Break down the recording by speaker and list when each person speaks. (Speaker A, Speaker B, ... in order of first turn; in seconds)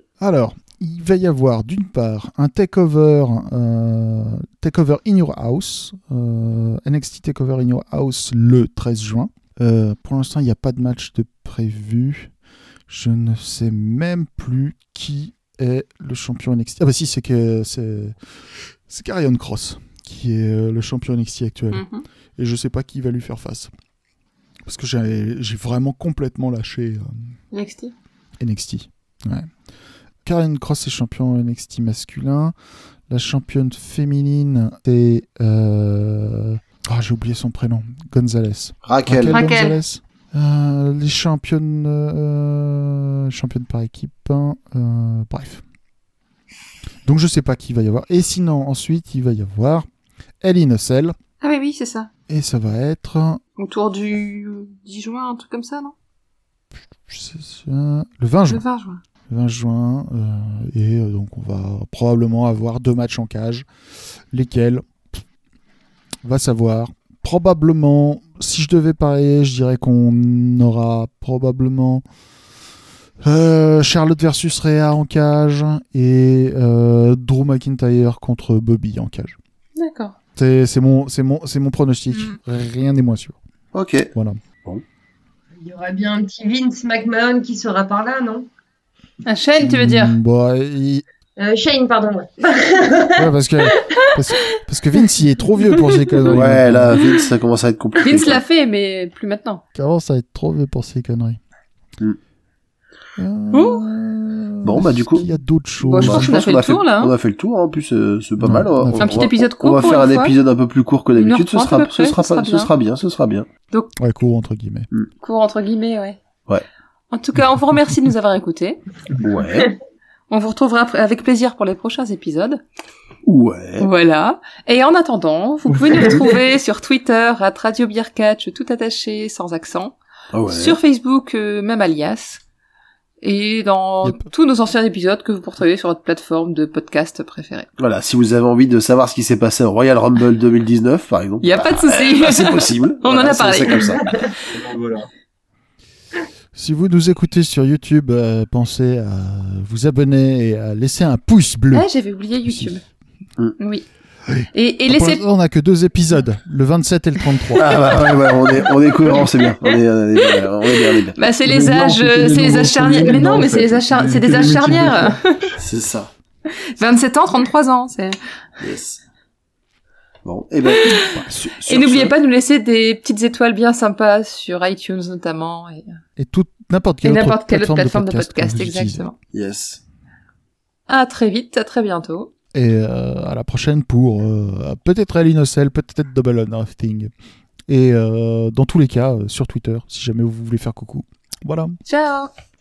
Speaker A: 0.2-12.3, 12.9-18.1, 18.9-21.8, 22.4-23.7, 24.6-27.1, 28.4-29.5, 30.2-32.5, 33.1-45.6, 47.0-49.9, 50.4-51.1, 52.3-53.4, 57.1-58.6, 59.3-63.7, 64.3-65.2, 66.2-72.0, 73.2-79.3, 80.3-83.4, 84.1-84.4, 89.6-91.0, 93.2-97.0, 99.8-101.4, 103.2-106.4, 108.4-109.3, 114.0-114.9, 146.5-151.9, 152.4-152.8, 154.3-157.7, 170.9-172.1, 176.2-179.1, 182.5-187.1, 187.7-191.8
Speaker B: 21.7-22.0, 27.5-27.9, 39.2-39.8, 51.4-52.1, 53.6-55.9, 58.5-59.0, 79.8-80.2, 89.2-90.2, 95.6-96.4, 98.0-99.6, 103.5-103.8, 105.9-107.1, 109.0-110.3, 111.2-112.7, 115.2-116.2, 117.1-118.8, 120.3-122.6, 123.8-129.9, 130.5-132.4, 133.2-137.7, 141.4-144.5, 151.7-152.8, 153.6-153.8, 154.5-155.2, 160.9-165.5, 166.5-168.2, 170.7-176.0, 177.0-179.1, 180.9-182.3, 191.8-192.3
Speaker C: 38.8-39.4, 83.7-84.1, 96.3-98.4, 104.6-105.3, 105.8-113.5, 119.2-119.7, 123.2-123.9, 130.3-130.8, 137.8-144.1, 157.5-161.2, 165.6-166.1, 168.6-169.0, 170.2-171.0, 179.3-179.8
Speaker D: 85.6-88.5, 91.4-93.3
Speaker E: 125.7-126.3, 144.5-145.1, 161.4-165.5